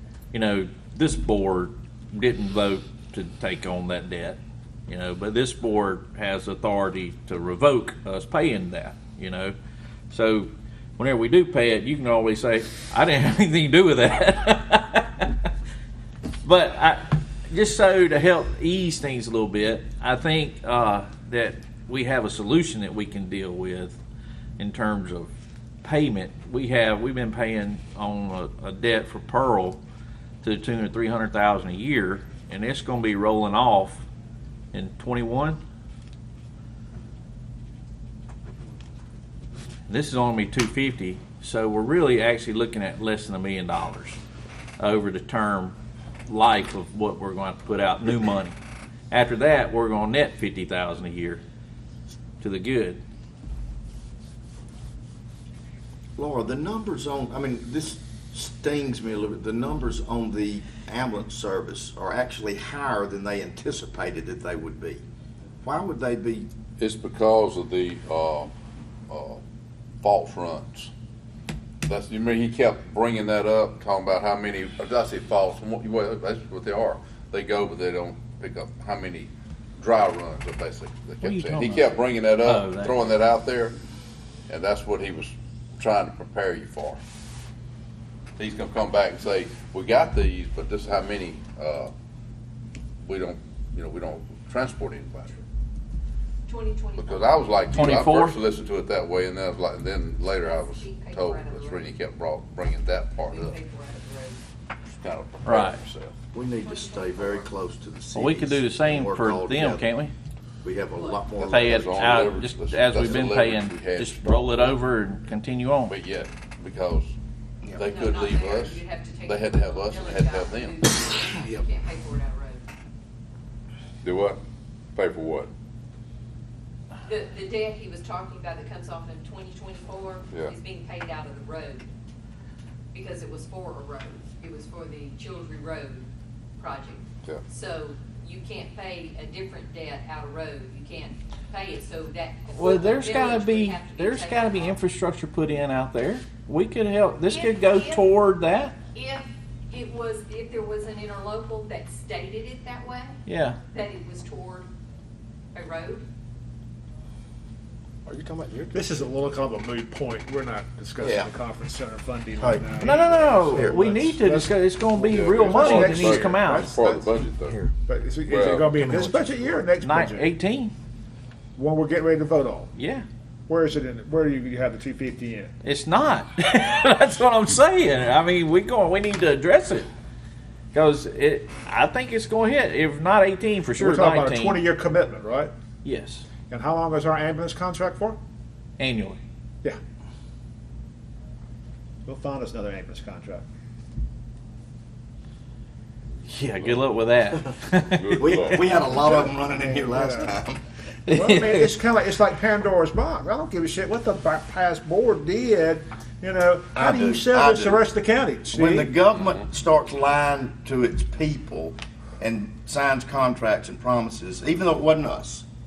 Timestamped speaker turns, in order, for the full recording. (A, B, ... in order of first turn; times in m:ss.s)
0:00.3-0:09.5 A
0:10.1-0:15.3 A
0:16.4-0:24.0 A
0:24.6-0:25.3 A
0:25.8-0:29.8 A
0:30.4-0:34.0 A
0:34.7-0:35.6 A
0:39.9-0:44.2 A
0:44.8-0:45.8 A
0:46.3-0:48.6 A
0:49.1-0:51.4 A
0:52.4-0:53.0 A
0:56.2-1:05.0 B
1:05.6-1:06.5 B
1:06.8-1:08.5 C
1:09.1-1:09.4 C
1:10.0-1:10.9 C
1:11.8-1:23.8 C
1:21.2-1:23.1 A
1:24.5-1:27.0 C
1:28.4-1:31.9 C
1:33.0-1:35.4 C
1:36.5-1:38.0 D
1:37.0-1:43.6 C
1:37.7-1:38.4 A
1:40.3-1:41.9 D
1:43.2-1:44.4 D
1:44.9-1:46.2 C
1:45.4-1:45.8 A
1:46.3-1:49.8 B
1:46.6-1:47.5 D
1:48.1-1:50.1 A
1:50.6-1:52.0 B
1:50.9-1:51.2 D
1:51.4-1:54.8 C
1:51.4-1:55.9 A
1:55.9-1:57.1 C
1:57.8-2:00.8 C
1:57.8-2:02.6 D
2:01.4-2:01.6 B
2:04.0-2:04.4 C
2:04.9-2:05.5 C
2:07.0-2:11.9 D
2:12.9-2:24.8 D
2:22.6-2:28.8 A
2:27.3-2:28.1 D
2:28.9-2:33.2 D
2:33.2-2:33.6 A
2:33.7-2:34.7 D
2:35.5-2:36.0 D
2:38.0-2:38.8 B
2:38.7-2:47.1 E
2:41.0-2:41.3 B
2:42.4-2:42.7 B
2:42.8-2:46.7 A
2:43.4-2:43.9 B
2:45.0-2:47.6 C
2:47.8-2:50.3 E
2:48.2-2:48.8 C
2:49.8-2:50.7 A
2:51.6-2:52.7 E
2:52.8-2:53.0 A
2:53.5-2:55.5 E
2:55.6-2:59.9 A
3:00.7-3:04.6 A
3:03.8-3:05.5 E
3:05.8-3:06.2 A
3:06.5-3:08.2 E
3:08.8-3:09.2 A
3:12.0-3:13.4 E
3:16.3-3:18.6 A
3:17.8-3:18.9 C
3:18.2-3:20.6 B
3:19.0-3:20.3 E
3:21.1-3:21.7 A
3:21.1-3:28.9 E
3:26.7-3:27.8 B
3:28.5-3:35.4 B